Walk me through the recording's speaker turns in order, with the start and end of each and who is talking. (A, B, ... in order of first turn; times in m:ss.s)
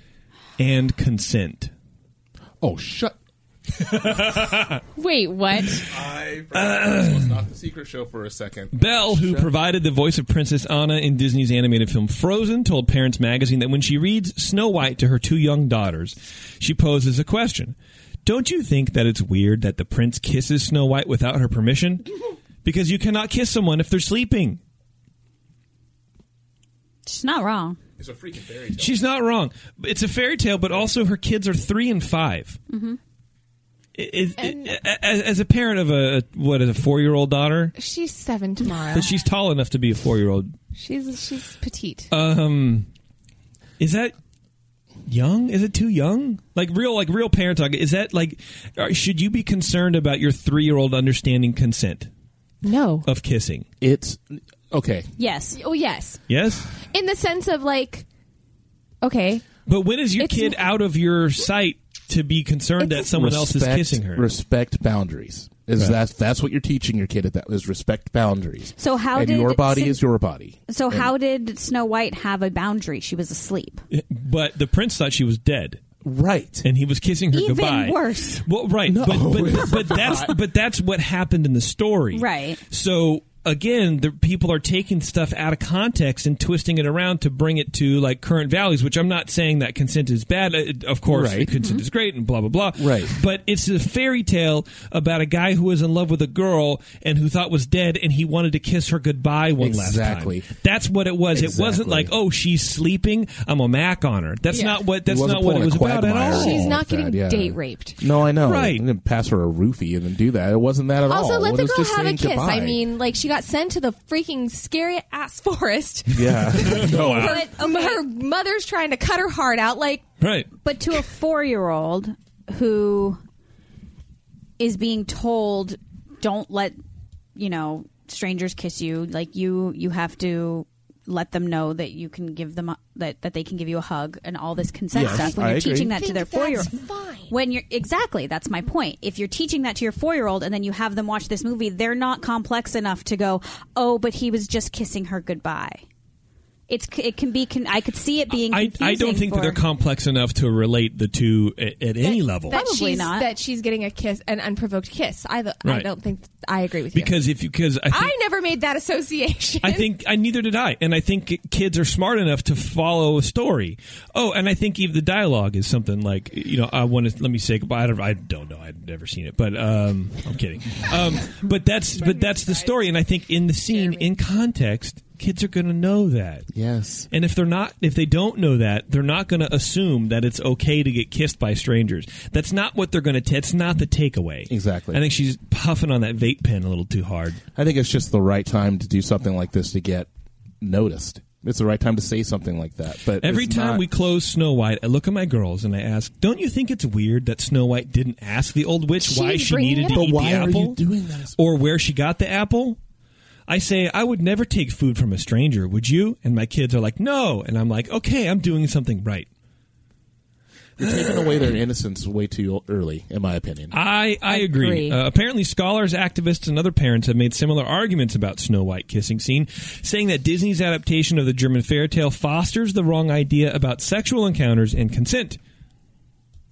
0:00.6-0:01.7 A
0:02.6-0:03.2 B
0:03.8-0:04.8 A
0:05.0-0:05.9 C
0:05.9-0:09.5 B
0:06.5-0:07.4 A
0:08.7-0:22.1 A
0:22.6-0:24.6 A
0:27.1-0:27.8 D
0:28.0-0:29.0 B
0:28.8-0:32.6 A
0:32.7-0:33.0 D
0:34.0-0:37.8 A
0:34.4-0:34.8 C
0:37.8-0:39.1 C
0:38.9-0:40.5 A
0:40.8-0:42.1 C
0:42.1-0:42.9 A
0:43.8-0:44.1 A
0:45.1-0:52.1 A
0:52.6-0:53.1 C
0:53.0-0:53.7 A
0:53.8-0:55.1 B
0:55.2-0:55.6 D
0:55.6-0:56.2 C
0:56.3-0:56.7 A
0:56.9-0:58.0 C
0:59.0-0:59.4 C
0:59.7-1:04.3 A
1:00.2-1:00.6 C
1:02.8-1:03.1 C
1:03.1-1:11.1 B
1:08.8-1:10.0 D
1:10.7-1:13.8 D
1:13.9-1:15.8 A
1:16.0-1:16.6 B
1:16.6-1:46.8 A
1:17.3-1:18.4 D
1:18.9-1:20.4 B
1:22.1-1:22.6 D
1:31.1-1:31.6 B
1:32.8-1:33.1 B
1:39.6-1:40.5 B
1:41.3-1:42.1 B
1:44.5-1:44.8 C
1:45.1-1:52.8 B
1:46.3-1:48.0 C
1:48.4-1:48.8 A
1:51.0-2:00.0 C
1:56.1-1:57.4 B
1:56.5-1:57.4 A
1:57.2-1:58.0 D
2:00.2-2:00.5 A
2:00.6-2:03.2 D
2:04.6-2:06.8 D
2:07.4-2:16.7 D
2:14.9-2:15.9 B
2:15.0-2:17.3 C
2:17.3-2:25.8 D
2:26.7-2:29.6 D
2:28.5-2:32.6 A
2:32.0-2:37.2 C
2:32.5-2:33.3 D
2:35.6-2:35.9 A
2:36.9-2:38.2 A
2:37.9-2:39.9 C
2:39.6-2:56.5 A
2:56.5-2:57.1 B
2:57.1-3:07.4 A
3:04.5-3:05.0 B
3:07.6-3:10.1 B
3:10.6-3:13.8 B
3:13.2-3:20.8 A
3:19.0-3:20.3 C
3:19.9-3:21.4 B
3:21.4-3:22.8 A
3:23.5-3:29.3 A
3:30.8-3:33.8 B
3:33.7-3:45.4 A
3:34.3-3:35.0 C